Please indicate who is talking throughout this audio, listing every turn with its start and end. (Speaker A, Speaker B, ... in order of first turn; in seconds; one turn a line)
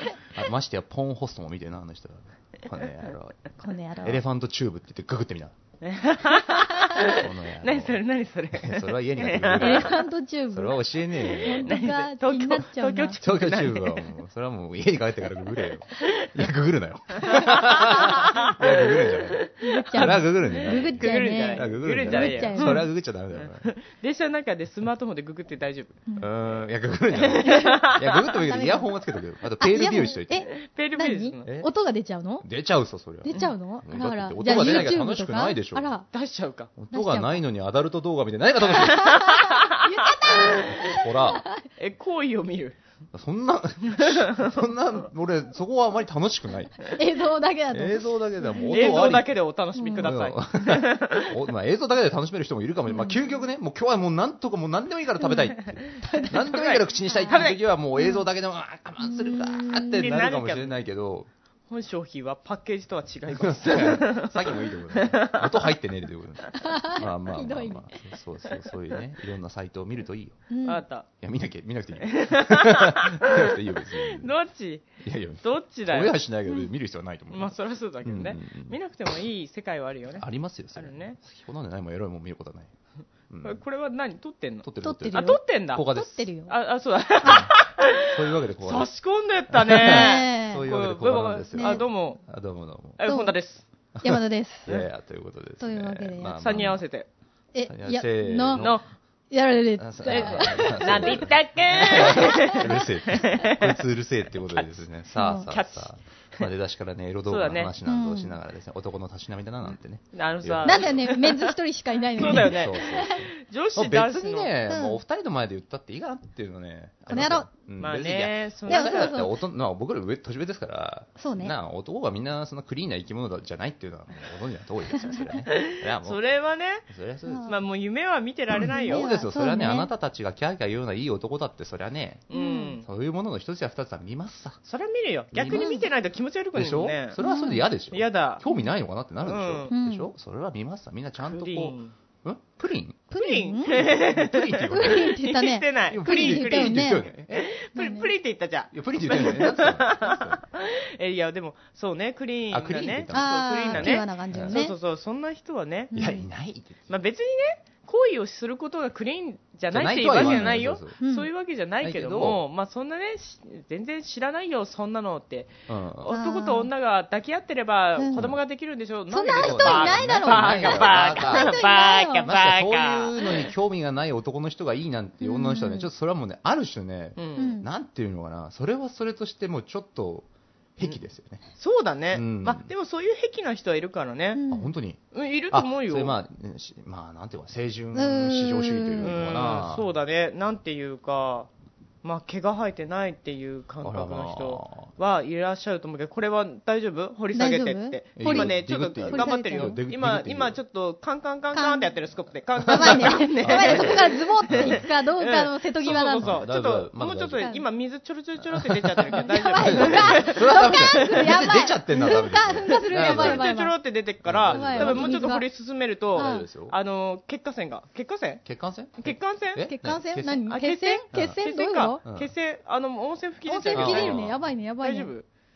Speaker A: 0.3-3.4
Speaker B: 3.6-4.2
Speaker A: 4.0-5.5
Speaker C: 5.8-10.0
Speaker A: 6.9-8.0
Speaker A: 8.5-11.8
Speaker B: 9.6-13.2
Speaker C: 11.4-14.1
Speaker A: 13.2-23.7
Speaker C: 16.0-16.3
Speaker C: 17.1-26.0
Speaker B: 19.6-22.9
Speaker A: 26.2-30.5
Speaker C: 27.1-28.4
Speaker B: 27.5-28.9
Speaker B: 29.6-32.5
Speaker C: 30.5-31.5
Speaker A: 31.4-31.7
Speaker A: 32.4-35.9
Speaker B: 33.2-36.1
Speaker C: 34.5-34.9
Speaker C: 36.1-36.7
Speaker A: 36.8-39.3
Speaker B: 36.9-37.4
Speaker C: 38.8-41.1
Speaker B: 38.8-41.6
Speaker A: 40.4-41.4
Speaker C: 41.8-42.8
Speaker A: 43.1-46.9
Speaker C: 43.9-44.6
Speaker B: 46.9-49.1
Speaker A: 47.7-49.3
Speaker C: 48.7-51.4
Speaker B: 49.8-50.1
Speaker A: 50.0-61.3
Speaker B: 52.9-53.2
Speaker B: 56.0-56.4
Speaker C: 56.3-57.6
Speaker B: 57.1-57.4
Speaker B: 58.0-58.2
Speaker B: 59.0-60.0
Speaker C: 59.8-60.8
Speaker C: 61.7-65.7
Speaker A: 63.3-70.4
Speaker B: 66.5-68.0
Speaker B: 70.5-70.8
Speaker C: 70.6-71.1
Speaker A: 71.2-74.3
Speaker C: 72.0-74.8
Speaker A: 75.0-78.8
Speaker C: 75.4-76.1
Speaker C: 77.3-81.2
Speaker A: 80.2-82.7
Speaker A: 83.3-83.6
Speaker C: 83.4-85.9
Speaker A: 84.6-86.3
Speaker B: 84.8-86.5
Speaker C: 86.5-92.2
Speaker B: 87.2-87.5
Speaker A: 87.2-88.9
Speaker A: 89.5-93.0
Speaker B: 89.8-90.7
Speaker B: 91.5-91.8
Speaker C: 93.0-93.6
Speaker B: 93.0-93.3
Speaker A: 94.0-96.8
Speaker B: 94.0-94.7
Speaker B: 95.6-96.4
Speaker C: 96.4-97.1
Speaker B: 97.5-98.7
Speaker A: 97.7-98.8
Speaker C: 98.5-98.8
Speaker B: 99.3-101.3
Speaker A: 99.8-111.1
Speaker C: 100.1-103.8
Speaker B: 101.8-102.7
Speaker C: 104.5-106.5
Speaker B: 105.2-105.5
Speaker C: 107.3-107.7
Speaker B: 107.8-108.3
Speaker C: 110.1-111.5
Speaker B: 110.6-113.2
Speaker C: 112.2-114.5
Speaker A: 112.2-126.2
Speaker B: 114.7-115.0
Speaker B: 117.1-117.5
Speaker C: 117.8-119.2
Speaker B: 118.7-119.3
Speaker B: 121.2-121.5
Speaker B: 125.1-125.4
Speaker C: 125.5-126.9
Speaker A: 126.9-127.5
Speaker B: 127.3-127.5
Speaker C: 127.5-129.1
Speaker A: 128.5-132.3
Speaker B: 128.7-129.9
Speaker C: 132.3-132.8
Speaker B: 132.3-132.8
Speaker A: 132.8-134.6
Speaker C: 134.7-137.2
Speaker A: 135.3-135.8
Speaker B: 135.5-135.8
Speaker A: 136.5-143.1
Speaker B: 137.2-137.7
Speaker C: 137.9-138.4
Speaker C: 139.2-139.7
Speaker B: 139.7-140.1
Speaker C: 141.2-141.9
Speaker B: 143.1-143.8
Speaker C: 143.1-155.9
Speaker A: 143.7-145.1
Speaker B: 144.7-147.0
Speaker A: 145.9-147.5
Speaker B: 147.7-148.1
Speaker A: 148.7-150.4
Speaker A: 152.5-154.6
Speaker B: 153.1-154.8
Speaker B: 155.9-156.2
Speaker A: 155.9-156.9
Speaker C: 156.9-173.5
Speaker A: 159.7-161.0
Speaker B: 160.2-160.4
Speaker B: 161.0-161.3
Speaker A: 161.8-162.4
Speaker A: 165.7-166.1
Speaker B: 166.1-166.7
Speaker B: 168.0-168.2
Speaker A: 168.1-168.4
Speaker B: 169.1-172.3
Speaker A: 169.3-171.6
Speaker A: 172.2-181.4
Speaker B: 175.2-175.9
Speaker C: 177.2-177.5
Speaker B: 177.4-177.7
Speaker C: 181.6-184.4
Speaker A: 182.1-182.7
Speaker B: 184.3-184.7
Speaker A: 184.5-189.9
Speaker C: 185.1-186.2
Speaker B: 187.9-189.2
Speaker C: 189.0-191.5
Speaker C: 192.0-211.5
Speaker A: 193.8-194.9
Speaker B: 197.3-199.8
Speaker A: 198.2-200.6
Speaker B: 201.5-201.9
Speaker A: 202.6-204.8
Speaker B: 202.7-206.4
Speaker A: 206.2-207.5
Speaker B: 207.4-207.6
Speaker A: 208.4-213.6
Speaker B: 209.1-213.8
Speaker C: 212.8-218.4
Speaker A: 214.2-215.4
Speaker B: 214.4-215.4
Speaker A: 216.1-216.8
Speaker B: 216.2-216.5
Speaker A: 218.4-220.5
Speaker C: 219.0-219.7
Speaker B: 219.6-222.0
Speaker C: 220.5-224.3
Speaker A: 221.1-221.4
Speaker A: 222.0-222.3
Speaker B: 223.4-225.1
Speaker A: 223.7-224.4
Speaker C: 224.8-225.2